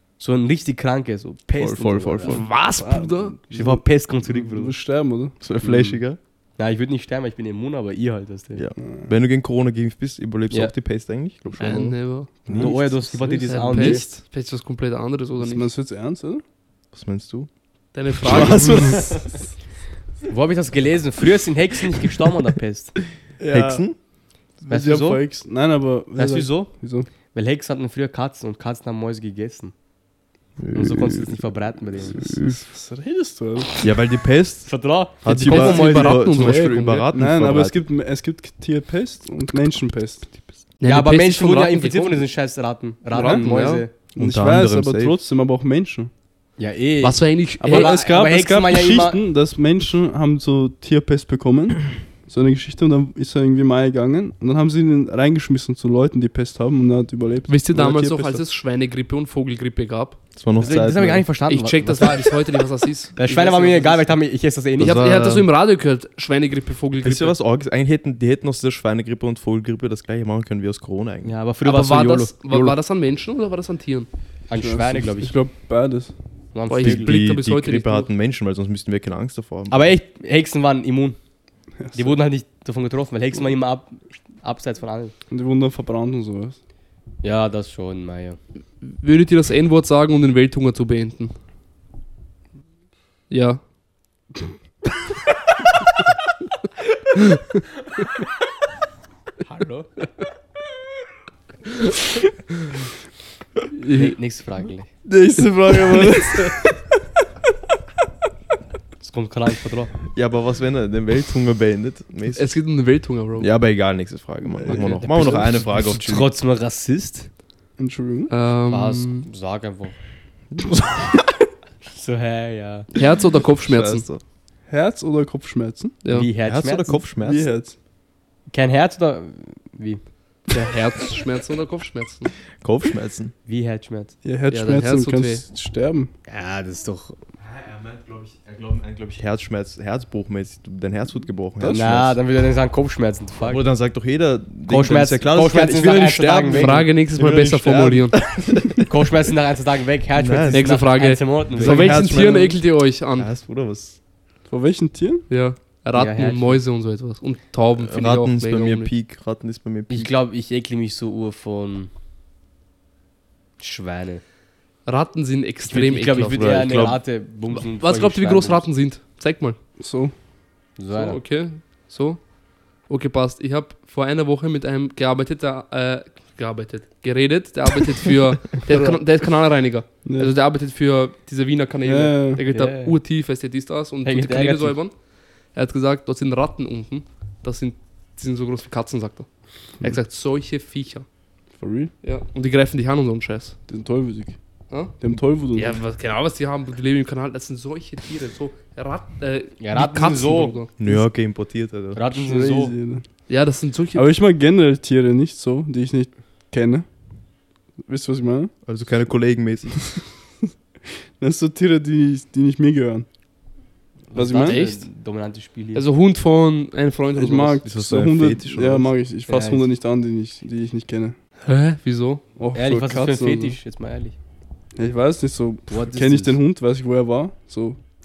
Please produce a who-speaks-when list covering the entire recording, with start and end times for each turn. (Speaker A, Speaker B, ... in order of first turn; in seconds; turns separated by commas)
Speaker A: 0.2-2.4, Speaker B: 1.6-2.4, Speaker C: 2.2-3.4, Speaker D: 2.5-5.3, Speaker A: 3.5-4.8, Speaker B: 5.4-6.2, Speaker A: 5.6-6.0, Speaker A: 6.6-8.6, Speaker B: 8.5-12.8, Speaker D: 8.8-9.1, Speaker C: 11.6-12.3, Speaker D: 12.4-14.0, Speaker A: 12.5-14.0, Speaker C: 13.5-15.7, Speaker D: 15.4-16.4, Speaker B: 16.9-17.5, Speaker C: 17.9-19.0, Speaker D: 18.2-19.3, Speaker A: 18.2-19.3, Speaker A: 20.3-23.0, Speaker D: 23.4-23.8, Speaker B: 23.5-23.9, Speaker D: 24.6-27.1, Speaker A: 24.7-25.2, Speaker A: 26.1-26.7, Speaker A: 27.3-29.7, Speaker B: 30.6-31.4, Speaker A: 30.7-32.3, Speaker B: 32.1-32.6, Speaker D: 32.2-33.8, Speaker B: 33.8-37.8, Speaker A: 34.6-36.3, Speaker C: 35.3-37.0, Speaker D: 37.1-40.3, Speaker C: 40.8-42.2, Speaker A: 40.8-43.9, Speaker D: 43.1-46.1, Speaker B: 43.4-45.2, Speaker A: 46.6-49.2, Speaker C: 47.0-48.0, Speaker D: 47.6-58.4, Speaker C: 57.5-60.2, Speaker B: 60.4-61.3, Speaker A: 60.6-62.4, Speaker C: 61.5-64.0, Speaker A: 63.1-65.0, Speaker B: 64.8-65.5, Speaker C: 64.8-67.3, Speaker B: 67.0-71.3, Speaker A: 71.2-72.8, Speaker C: 71.6-74.1, Speaker A: 74.5-75.3, Speaker D: 74.5-76.1, Speaker A: 76.5-77.2, Speaker C: 76.7-78.1, Speaker B: 76.8-79.9, Speaker A: 79.7-81.2, Speaker D: 81.8-82.2, Speaker A: 81.9-85.1, Speaker D: 85.3-86.6, Speaker A: 87.2-88.4, Speaker C: 88.8-91.3, Speaker C: 93.3-93.6, Speaker A: 99.4-99.9, Speaker C: 103.8-104.1, Speaker A: 103.9-104.9, Speaker D: 105.0-106.8, Speaker A: 109.0-109.9, Speaker B: 110.1-112.6, Speaker C: 112.3-113.5, Speaker B: 113.4-116.3, Speaker D: 114.6-115.5, Speaker A: 114.6-117.3, Speaker D: 117.8-118.3, Speaker C: 118.3-119.3, Speaker A: 118.7-119.9, Speaker B: 120.5-121.1, Speaker A: 121.9-122.9, Speaker C: 122.9-124.0, Speaker B: 123.6-124.2, Speaker D: 124.7-126.0, Speaker C: 126.0-126.3, Speaker A: 126.1-127.0, Speaker B: 126.4-127.5, Speaker D: 127.2-127.8, Speaker A: 128.5-130.0, Speaker C: 130.5-132.3, Speaker B: 132.6-133.3, Speaker A: 133.4-134.1, Speaker D: 134.2-136.1, Speaker C: 134.5-135.4, Speaker A: 136.3-137.2, Speaker B: 137.4-142.2, Speaker A: 141.6-143.6, Speaker B: 143.4-148.9, Speaker A: 144.7-146.9, Speaker C: 146.5-148.2, Speaker A: 148.8-152.0, Speaker B: 150.2-150.8, Speaker C: 150.5-153.3, Speaker B: 151.5-152.6, Speaker B: 153.2-154.0, Speaker D: 154.5-155.2, Speaker C: 155.3-158.9, Speaker A: 155.9-156.6, Speaker B: 157.8-160.1, Speaker A: 159.9-161.9, Speaker A: 163.6-164.2, Speaker C: 164.8-166.7, Speaker A: 165.7-168.6, Speaker B: 166.3-167.0, Speaker C: 167.5-169.6, Speaker D: 169.8-170.1, Speaker A: 170.8-171.2, Speaker C: 170.9-172.2, Speaker C: 172.9-184.9, Speaker D: 178.7-179.0, Speaker D: 180.0-180.3, Speaker D: 181.8-182.4, Speaker A: 182.5-183.0, Speaker A: 184.0-184.8, Speaker C: 185.5-189.3, Speaker C: 189.8-191.0, Speaker D: 191.6-191.9, Speaker C: 192.0-193.6, Speaker D: 193.7-194.3, Speaker C: 194.7-194.9, Speaker D: 195.0-195.8, Speaker C: 195.5-201.0, Speaker A: 199.6-200.6, Speaker B: 200.8-202.0, Speaker A: 201.9-202.7, Speaker D: 202.1-203.0, Speaker C: 203.3-204.1, Speaker D: 203.9-206.8, Speaker D: 207.8-208.5, Speaker B: 208.7-209.9, Speaker D: 211.2-213.1, Speaker A: 214.1-215.8, Speaker D: 214.1-214.6, Speaker C: 214.3-214.8, Speaker C: 215.7-217.6, Speaker D: 217.2-221.2, Speaker B: 217.6-218.9, Speaker A: 219.3-219.7, Speaker C: 221.4-222.2, Speaker D: 222.3-223.6, Speaker A: 222.5-224.1, Speaker D: 224.8-227.8, Speaker A: 225.7-226.4